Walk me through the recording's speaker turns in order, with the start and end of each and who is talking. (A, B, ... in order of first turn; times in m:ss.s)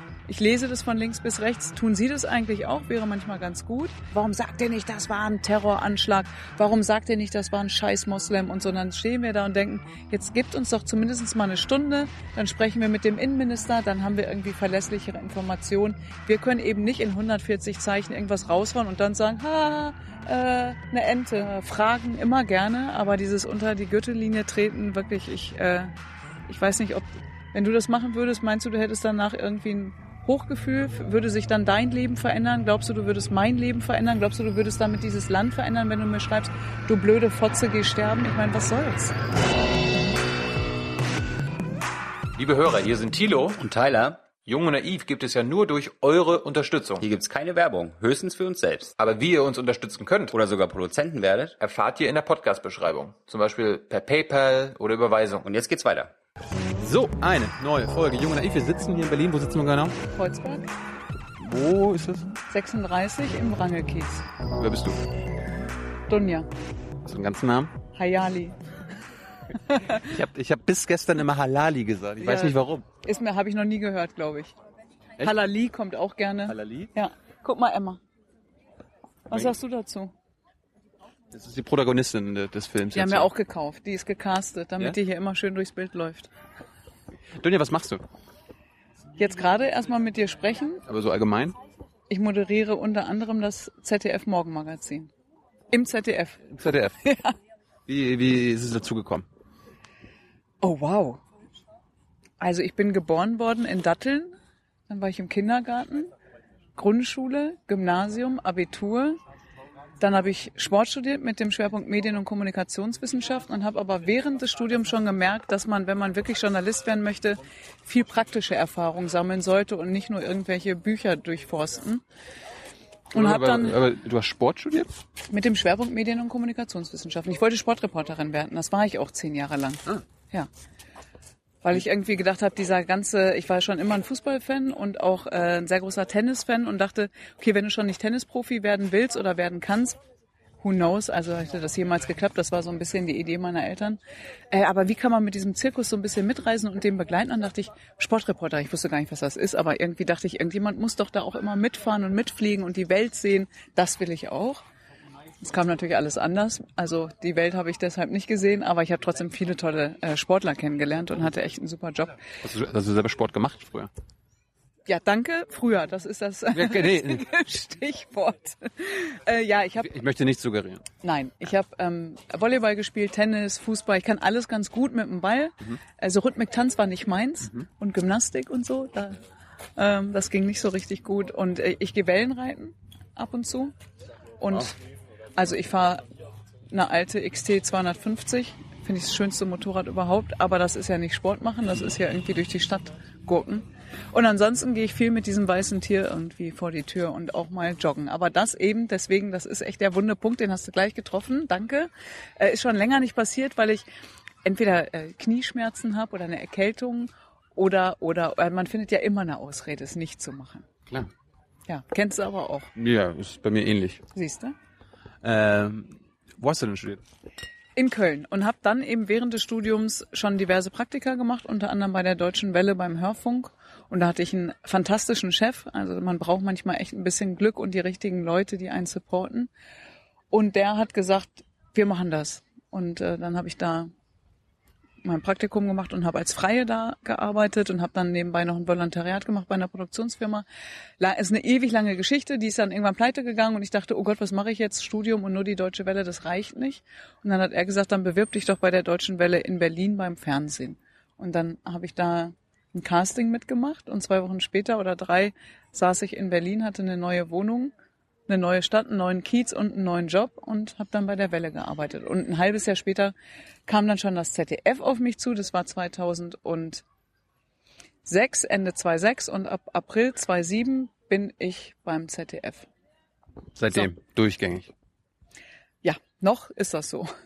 0:00.3-0:25.9 A
0:26.5-0:39.1 A
0:42.4-0:43.6 B
0:43.6-0:44.2 C
0:44.4-0:47.0 B
0:47.0-0:48.9 C
0:49.0-0:50.3 B
0:50.3-0:51.6 C
0:51.6-0:55.4 B
0:55.4-0:56.1 C
0:56.8-1:00.0 D
1:00.1-1:00.7 A
1:01.4-1:02.4 D
1:02.5-1:04.2 A
1:04.6-1:05.0 D
1:06.1-1:06.5 A
1:07.0-1:07.7 D
1:07.9-1:08.6 A
1:09.7-1:10.0 A
1:09.9-1:12.8 D
1:12.2-1:14.5 A
1:15.2-1:18.0 A
1:16.5-1:16.9 D
1:19.3-1:20.1 A
1:21.3-1:23.3 D
1:22.9-1:26.3 A
1:27.3-1:28.0 D
1:29.2-1:30.8 A
1:30.8-1:31.6 D
1:32.1-1:35.1 A
1:35.7-1:37.3 A
1:36.5-1:37.0 D
1:37.8-1:39.2 D
1:40.6-1:41.2 A
1:42.4-1:44.3 A
1:44.9-1:46.1 A
1:46.8-1:49.2 A
1:50.0-2:02.0 A
2:03.1-2:03.8 A
2:03.1-2:04.9 D
2:05.3-2:10.5 A
2:11.6-2:20.0 A
2:20.6-2:24.0 A
2:24.5-2:34.6 A
2:35.4-2:42.2 A
2:42.4-2:43.9 D
2:44.9-2:49.9 A
2:46.5-2:47.3 D
2:49.8-2:50.8 D
2:51.0-2:59.2 A
2:59.8-3:03.7 A
3:04.4-3:04.8 A
3:05.3-3:06.0 A
3:06.7-3:23.8 A
3:24.4-3:30.7 A
3:31.7-3:32.7 A
3:32.8-3:34.0 D
3:34.1-3:34.5 A
3:35.2-3:37.0 D
3:37.8-3:49.5 A
3:50.3-3:53.9 A
3:55.0-4:00.4 A
4:01.0-4:17.7 A
4:18.3-4:23.1 A
4:23.7-4:26.8 A
4:28.0-4:32.7 A
4:33.6-4:34.7 D
4:35.8-4:37.1 A